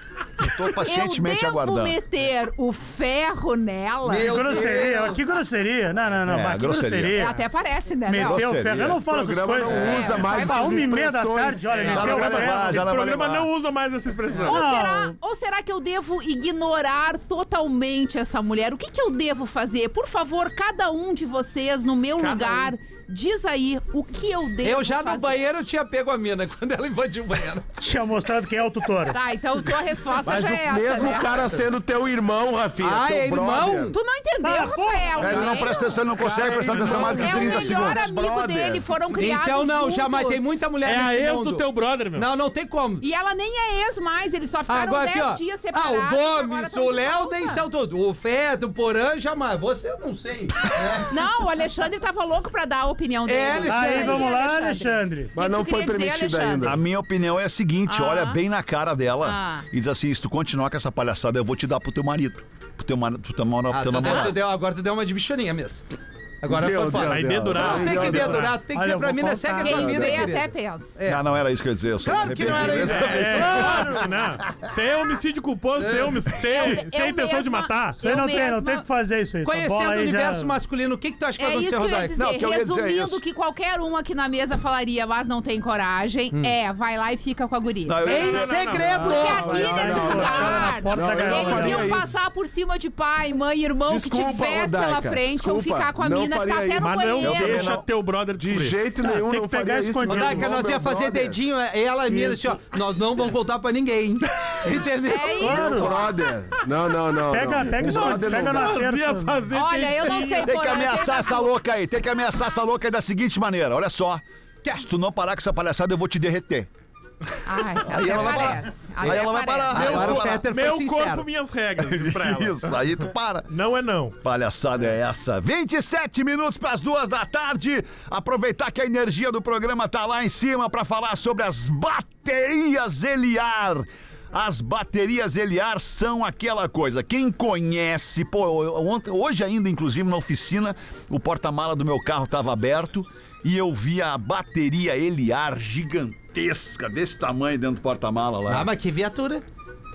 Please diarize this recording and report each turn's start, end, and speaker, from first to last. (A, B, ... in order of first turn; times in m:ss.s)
0:00.4-0:02.0 A
0:00.8-0:04.4 B
0:04.0-0:05.2 C
0:04.2-0:07.4 D
0:06.3-0:07.2 A
0:07.1-0:08.5 B
0:08.1-0:12.8 D
0:08.2-0:09.0 A
0:08.9-0:12.2 E
0:09.7-0:11.0 B
0:11.8-0:14.6 F
0:11.8-0:13.5 A
0:14.4-0:15.1 D
0:14.4-0:25.4 B
0:22.2-0:22.7 F
0:24.6-0:27.6 C
0:27.8-0:29.2 D
0:29.1-0:31.5 B
0:30.2-0:33.9 E
0:32.8-0:34.0 C
0:33.9-0:36.1 B
0:34.4-0:35.8 D
0:35.2-0:38.1 A
0:36.2-0:38.9 E
0:36.4-0:36.9 D
0:36.8-0:40.6 B
0:39.1-0:43.0 C
0:40.8-0:42.3 F
0:43.0-0:47.6 B
0:44.7-0:51.1 C
0:51.1-0:56.8 B
0:53.3-0:54.3 C
0:53.6-0:55.3 D
0:55.4-0:56.8 E
0:56.6-1:04.4 A
0:57.9-0:58.4 B
0:59.2-0:59.6 B
1:03.7-1:05.8 C
1:06.4-1:11.2 C
1:06.4-1:08.5 E
1:07.0-1:08.6 F
1:08.6-1:10.3 D
1:09.6-1:11.0 B
1:09.8-1:10.1 E
1:11.1-1:13.9 A
1:12.0-1:13.6 C
1:12.5-1:18.0 F
1:13.2-1:14.1 D
1:15.8-1:16.2 C
1:16.5-1:18.8 B
1:18.0-1:20.6 D
1:19.4-1:22.2 C
1:21.4-1:28.3 B
1:22.2-1:23.2 A
1:27.9-1:29.1 A
1:28.0-1:29.9 C
1:28.1-1:29.2 F
1:29.0-1:32.2 E
1:29.0-1:37.8 B
1:29.5-1:32.0 D
1:33.9-1:37.8 E
1:36.8-1:38.8 F
1:38.4-1:41.4 E
1:39.0-1:40.5 D
1:40.1-1:45.8 C
1:42.1-1:42.6 D
1:45.1-1:46.1 B
1:45.4-1:46.0 D
1:45.7-1:48.8 E
1:47.3-1:49.4 D
1:47.9-1:50.5 F
1:49.5-1:51.5 B
1:50.4-1:56.7 A
1:57.4-2:00.0 B
1:57.8-2:00.4 A
1:59.0-2:01.3 C
1:59.7-2:03.0 F
2:01.8-2:03.5 A
2:03.5-2:04.2 F
2:04.2-2:28.7 A
2:28.5-2:29.4 C